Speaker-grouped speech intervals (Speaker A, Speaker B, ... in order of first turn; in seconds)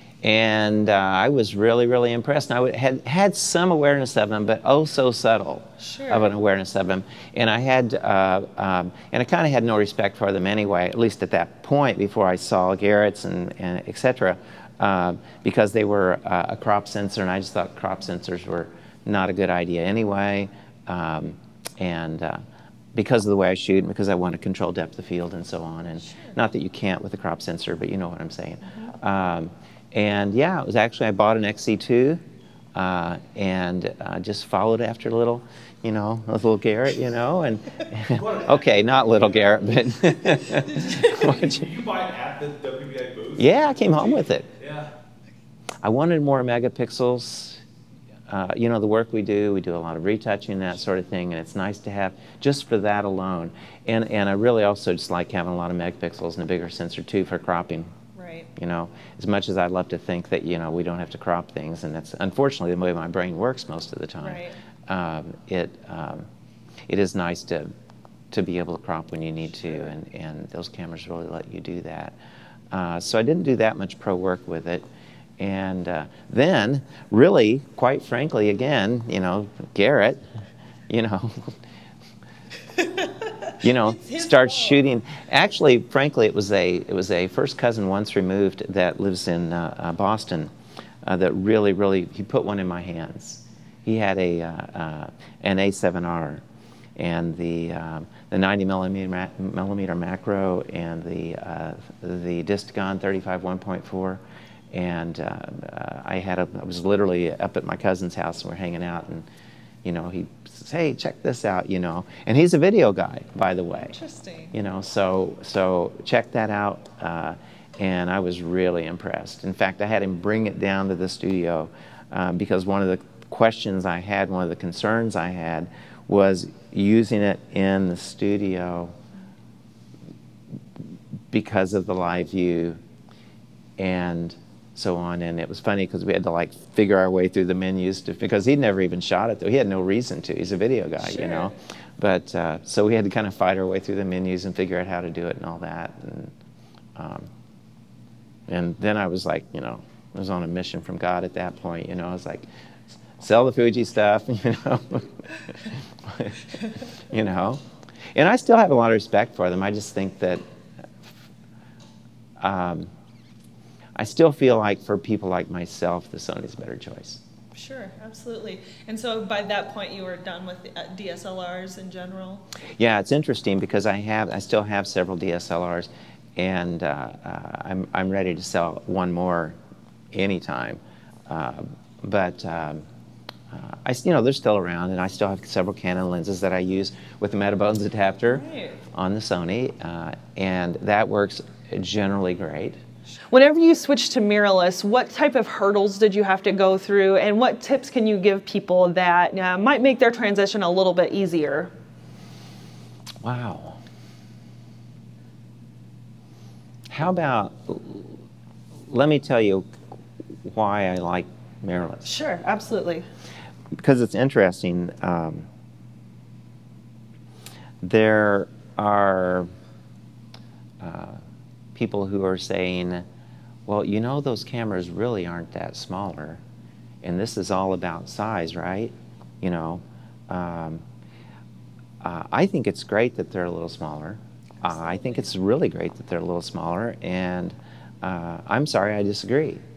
Speaker A: 0.2-22.4, 22.9-32.2, 32.7-41.7, 43.4-44.5, 45.8-47.6, 48.3-57.9, 58.5-66.3, 66.9-67.7, 68.3-72.2, 72.7-74.8, 75.4-80.2, 80.9-81.6, 83.6-90.5, 91.0-96.4, 97.0-109.2, 109.8-114.0, 114.5-128.9, 131.3-132.8, 133.8-146.3, 146.9-147.3, 148.5-152.4, 153.2-156.5, 157.1-157.6, 158.1-160.4, 162.4-162.9, 163.9-167.2, 172.8-179.6, 180.1-182.8, 183.5-192.8, 203.2-203.8, 206.9-208.2, 208.9-209.7, 210.4-212.1, 213.8-215.5, 217.8-219.5, 220.8-221.2, 221.7-223.0, 223.7-226.4, 227.0-230.8, 232.0-239.6
Speaker B: 5.8-6.3, 26.0-26.4, 40.6-41.3, 58.1-58.5, 64.2-64.6, 82.8-84.8, 113.8-114.5, 141.0-141.5, 167.5-172.4, 188.3-188.8, 193.3-201.7, 212.0-213.0, 234.7-235.2
Speaker C: 38.1-44.9